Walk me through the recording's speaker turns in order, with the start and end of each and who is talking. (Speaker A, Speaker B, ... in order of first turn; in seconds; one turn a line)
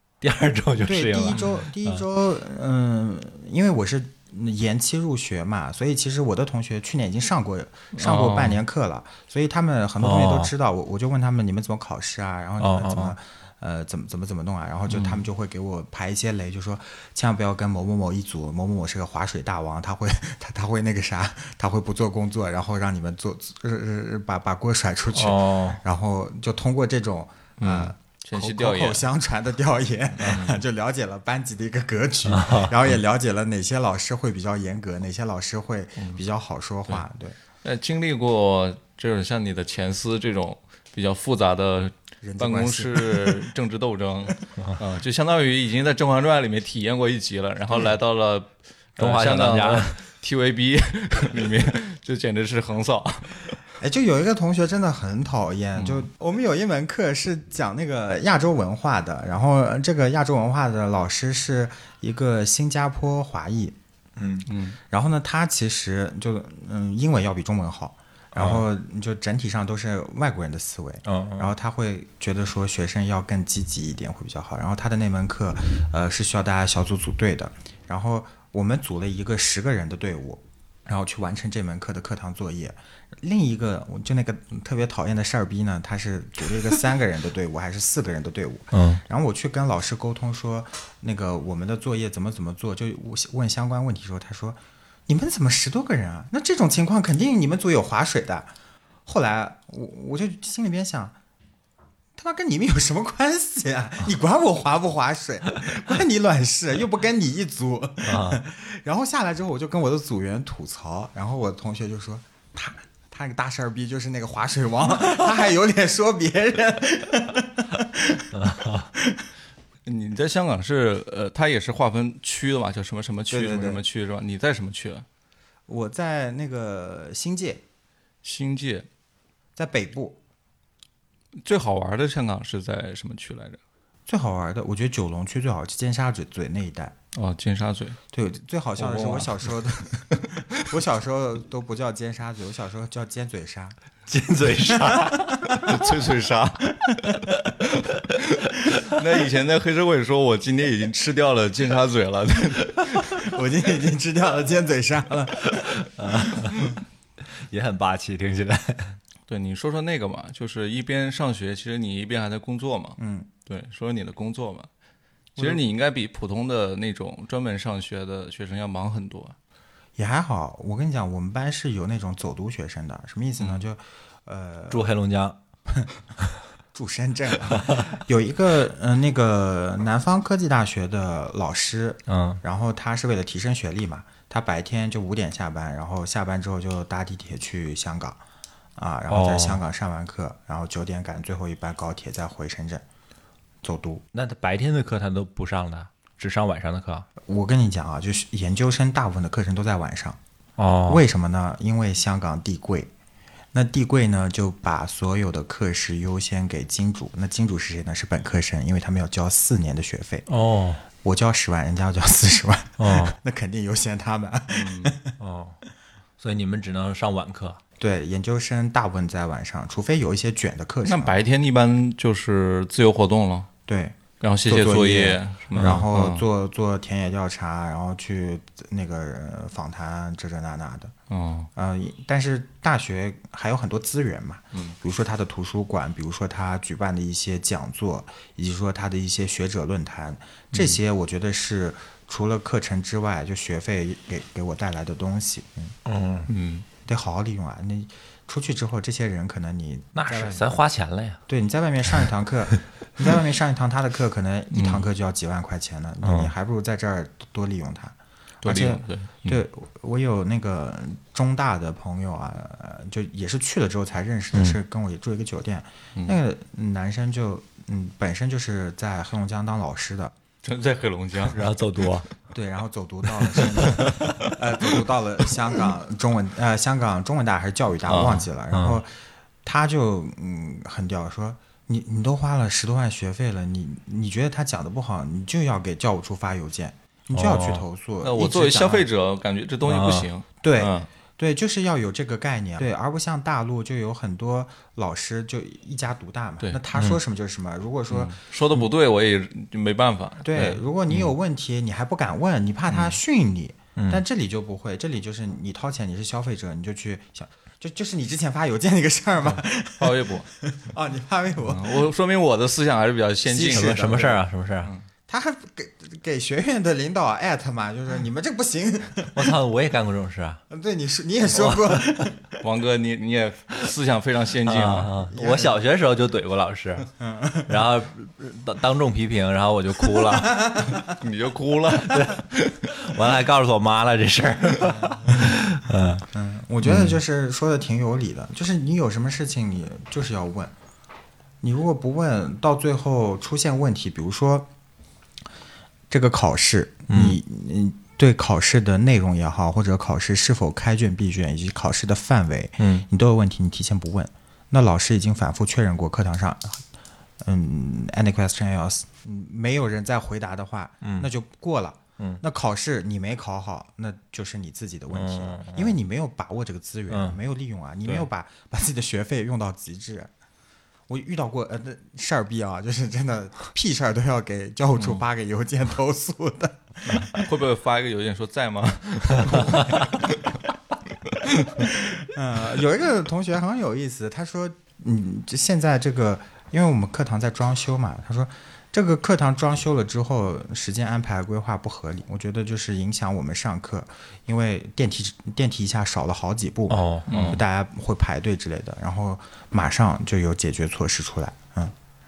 Speaker A: 0.2-2.0
Speaker B: 0.8-37.4
Speaker C: 7.9-8.6
Speaker A: 10.0-10.5
Speaker A: 12.6-13.1
Speaker C: 14.9-15.2
Speaker A: 25.1-25.8
Speaker C: 27.6-29.0
Speaker C: 30.2-30.6
Speaker A: 32.2-32.9
Speaker C: 37.6-53.6
Speaker B: 42.2-43.5
Speaker A: 49.0-50.0
Speaker B: 53.8-63.8
Speaker C: 55.8-56.1
Speaker A: 64.2-64.5
Speaker C: 64.5-64.8
Speaker B: 64.9-98.5
Speaker A: 68.3-68.6
Speaker A: 71.0-71.5
Speaker A: 88.7-89.0
Speaker B: 99.0-101.2
Speaker B: 102.2-119.2
Speaker A: 108.0-108.4
Speaker A: 118.3-118.9
Speaker C: 119.8-125.0
Speaker B: 123.3-123.8
Speaker B: 125.7-127.6
Speaker C: 128.2-128.9
Speaker B: 129.6-130.2
Speaker C: 131.4-133.6
Speaker B: 134.1-136.9
Speaker C: 137.1-138.0
Speaker B: 138.1-143.8
Speaker C: 138.8-139.5
Speaker C: 140.1-140.7
Speaker A: 144.1-145.6
Speaker B: 144.5-145.8
Speaker C: 145.5-147.1
Speaker B: 146.8-147.2
Speaker C: 147.9-153.2
Speaker B: 153.1-155.8
Speaker A: 155.5-156.7
Speaker A: 157.4-159.0
Speaker C: 159.3-164.7
Speaker B: 163.0-163.3
Speaker C: 165.3-169.3
Speaker B: 165.4-165.6
Speaker B: 169.9-174.9
Speaker C: 173.4-173.6
Speaker A: 174.7-175.4
Speaker B: 176.7-188.2
Speaker A: 182.1-182.4
Speaker B: 188.8-192.8
Speaker A: 189.1-189.6
Speaker B: 193.6-194.0
Speaker A: 194.1-197.1
Speaker B: 197.2-200.2
Speaker A: 200.6-201.0
Speaker B: 200.9-202.9
Speaker B: 203.5-210.2
Speaker A: 210.3-210.8
Speaker B: 211.0-215.2
Speaker A: 212.8-213.1
Speaker C: 214.5-214.9
Speaker A: 215.2-215.6
Speaker A: 216.2-217.6
Speaker B: 217.8-221.2
Speaker C: 220.8-223.5
Speaker B: 223.7-230.9
Speaker C: 224.2-226.2
Speaker A: 225.6-225.8
Speaker C: 231.1-231.5
Speaker B: 231.5-245.7
Speaker C: 240.5-240.8
Speaker A: 245.8-246.3
Speaker C: 246.3-246.6
Speaker B: 246.8-250.5
Speaker A: 249.9-251.2
Speaker B: 251.3-270.1
Speaker C: 254.5-254.8
Speaker A: 256.0-256.3
Speaker C: 258.4-259.4
Speaker C: 270.4-271.4
Speaker A: 271.3-272.1
Speaker B: 272.3-278.9
Speaker A: 273.8-274.1
Speaker C: 277.9-278.3
Speaker A: 278.5-278.8
Speaker B: 279.4-288.9
Speaker A: 287.1-287.6
Speaker C: 288.0-290.9
Speaker A: 289.6-290.1
Speaker B: 290.4-298.2
Speaker A: 296.7-297.0
Speaker C: 297.9-301.1
Speaker B: 300.2-311.9
Speaker A: 303.8-304.0
Speaker C: 309.8-310.3
Speaker C: 311.4-313.9
Speaker B: 313.2-314.2
Speaker A: 313.5-314.7
Speaker B: 315.1-319.3
Speaker A: 319.1-320.4
Speaker B: 320.5-322.4
Speaker A: 321.3-322.1
Speaker C: 322.4-324.9
Speaker A: 324.4-326.9
Speaker B: 325.1-325.6
Speaker B: 327.0-327.6
Speaker A: 327.5-330.5
Speaker B: 329.9-330.9
Speaker C: 330.8-332.5
Speaker A: 331.9-336.1
Speaker B: 334.6-335.4
Speaker B: 336.1-340.5
Speaker A: 336.6-337.0
Speaker B: 341.4-344.5
Speaker B: 345.9-356.6
Speaker A: 346.9-347.2
Speaker A: 352.6-352.9
Speaker B: 357.2-370.1
Speaker A: 360.8-361.1
Speaker A: 364.9-365.7
Speaker A: 366.9-367.2
Speaker B: 370.9-377.3
Speaker C: 377.1-380.4
Speaker C: 381.1-381.7
Speaker B: 381.6-401.7
Speaker A: 396.7-397.4
Speaker C: 397.1-397.4